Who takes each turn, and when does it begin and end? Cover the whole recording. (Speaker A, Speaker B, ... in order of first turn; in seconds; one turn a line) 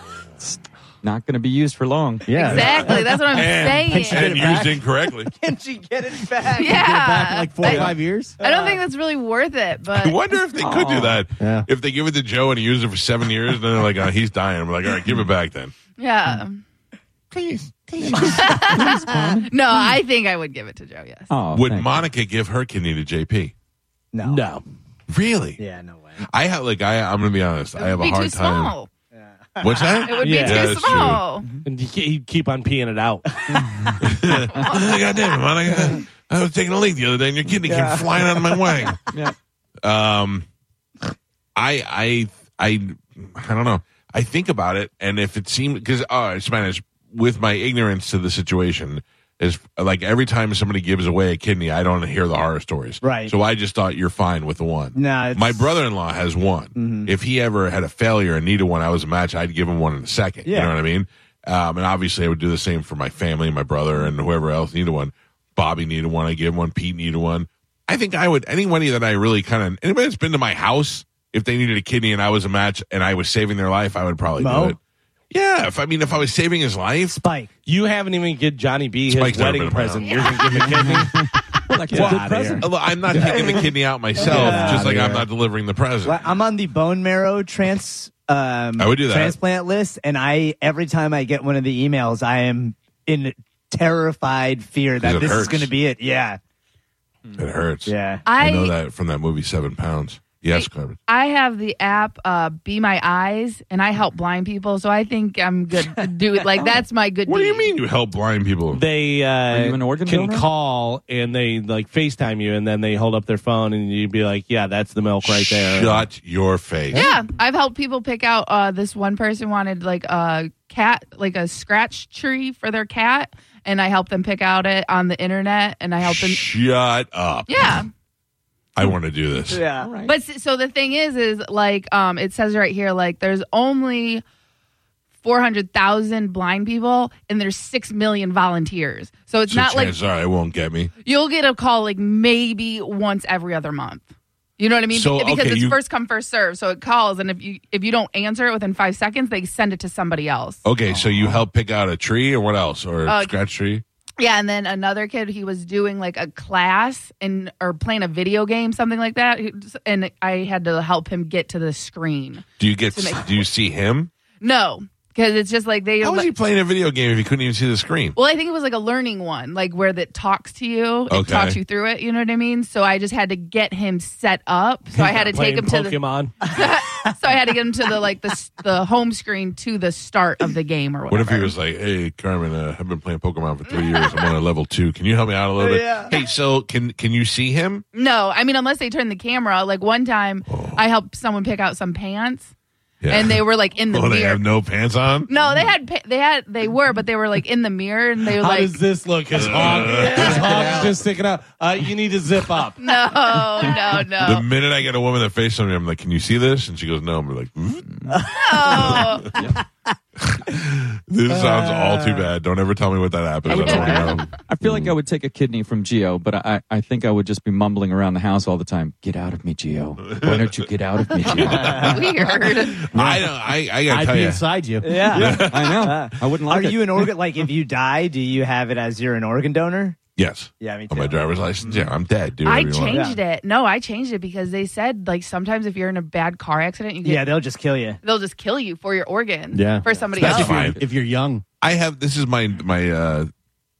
Speaker A: 0.4-2.9
Speaker B: 2.3-3.2
Speaker C: 2.4-4.4
Speaker D: 2.4-2.9
Speaker E: 3.3-5.3
Speaker D: 3.5-6.8
Speaker C: 6.5-10.2
Speaker B: 6.6-8.4
Speaker D: 8.4-8.8
Speaker E: 9.9-15.7
Speaker A: 10.6-11.2
Speaker B: 11.4-11.7
Speaker C: 16.0-16.6
Speaker E: 17.3-18.6
Speaker A: 18.0-19.5
Speaker C: 18.3-21.3
Speaker D: 19.1-19.3
Speaker A: 21.3-22.0
Speaker E: 21.5-23.5
Speaker D: 24.1-24.4
Speaker F: 24.2-24.6
Speaker E: 25.1-25.6
Speaker D: 25.6-26.2
Speaker E: 26.2-28.7
Speaker C: 27.8-28.9
Speaker D: 29.1-30.0
Speaker E: 29.6-31.2
Speaker C: 30.0-31.5
Speaker F: 30.2-30.9
Speaker F: 31.6-33.4
Speaker A: 33.6-33.9
Speaker E: 34.0-39.0
Speaker C: 34.5-35.0
Speaker D: 37.6-38.9
Speaker A: 39.1-39.3
Speaker E: 39.8-40.5
Speaker E: 41.5-74.8
Speaker D: 53.0-53.3
Speaker D: 54.9-55.7
Speaker D: 56.8-57.1
Speaker D: 60.4-60.7
Speaker D: 74.4-74.8
Speaker E: 75.3-77.2
Speaker D: 77.1-77.5
Speaker F: 77.7-81.2
Speaker E: 79.1-81.0
Speaker C: 80.0-80.7
Speaker A: 80.6-83.5
Speaker F: 81.9-82.7
Speaker E: 81.9-86.3
Speaker D: 84.2-85.1
Speaker A: 84.3-84.9
Speaker B: 84.4-85.1
Speaker D: 86.0-96.4
Speaker E: 88.8-89.4
Speaker E: 95.0-95.7
Speaker E: 97.3-101.0
Speaker D: 97.8-98.2
Speaker C: 98.2-98.7
Speaker C: 100.5-107.7
Speaker E: 107.2-108.8
Speaker F: 108.7-116.0
Speaker A: 109.5-110.5
Speaker E: 115.2-117.1
Speaker C: 116.9-126.4
Speaker E: 126.0-127.8
Speaker C: 127.5-127.9
Speaker E: 128.7-129.6
Speaker D: 129.5-129.9
Speaker A: 129.8-130.1
Speaker C: 130.0-134.2
Speaker C: 135.2-139.9
Speaker E: 139.5-140.9
Speaker C: 141.0-144.1
Speaker C: 144.6-150.6
Speaker E: 144.9-145.8
Speaker E: 150.6-153.8
Speaker C: 153.1-153.3
Speaker C: 154.2-163.4
Speaker E: 162.6-164.1
Speaker C: 164.4-166.3
Speaker E: 166.0-168.2
Speaker C: 168.2-181.5
Speaker E: 171.1-171.6
Speaker F: 174.9-176.4
Speaker E: 181.1-187.8
Speaker C: 183.7-184.1
Speaker D: 185.6-186.2
Speaker C: 187.9-192.5
Speaker E: 190.5-190.8
Speaker E: 193.0-195.3
Speaker C: 193.1-194.4
Speaker C: 195.3-198.8
Speaker F: 198.4-202.8
Speaker E: 199.3-200.7
Speaker D: 199.9-200.8
Speaker A: 200.1-200.9
Speaker C: 202.8-204.5
Speaker A: 203.6-203.9
Speaker E: 204.2-207.8
Speaker A: 207.9-208.2
Speaker D: 208.1-209.0
Speaker C: 208.3-209.4
Speaker E: 208.8-209.2
Speaker A: 208.8-209.6
Speaker E: 210.2-214.9
Speaker D: 211.3-212.2
Speaker A: 213.5-222.0
Speaker D: 213.5-214.1
Speaker C: 213.5-214.0
Speaker E: 220.1-220.7
Speaker E: 221.3-222.0
Speaker D: 221.5-221.9
Speaker C: 221.7-222.9
Speaker E: 222.7-224.4
Speaker B: 222.9-223.3
Speaker B: 223.8-225.4
Speaker D: 224.8-230.0
Speaker E: 225.1-225.9
Speaker A: 225.2-227.1
Speaker E: 230.2-233.0
Speaker D: 230.6-231.8
Speaker C: 232.4-237.3
Speaker D: 232.9-233.2
Speaker D: 237.0-238.0
Speaker C: 238.0-240.7
Speaker B: 239.5-241.4
Speaker E: 240.2-240.8
Speaker E: 241.6-243.3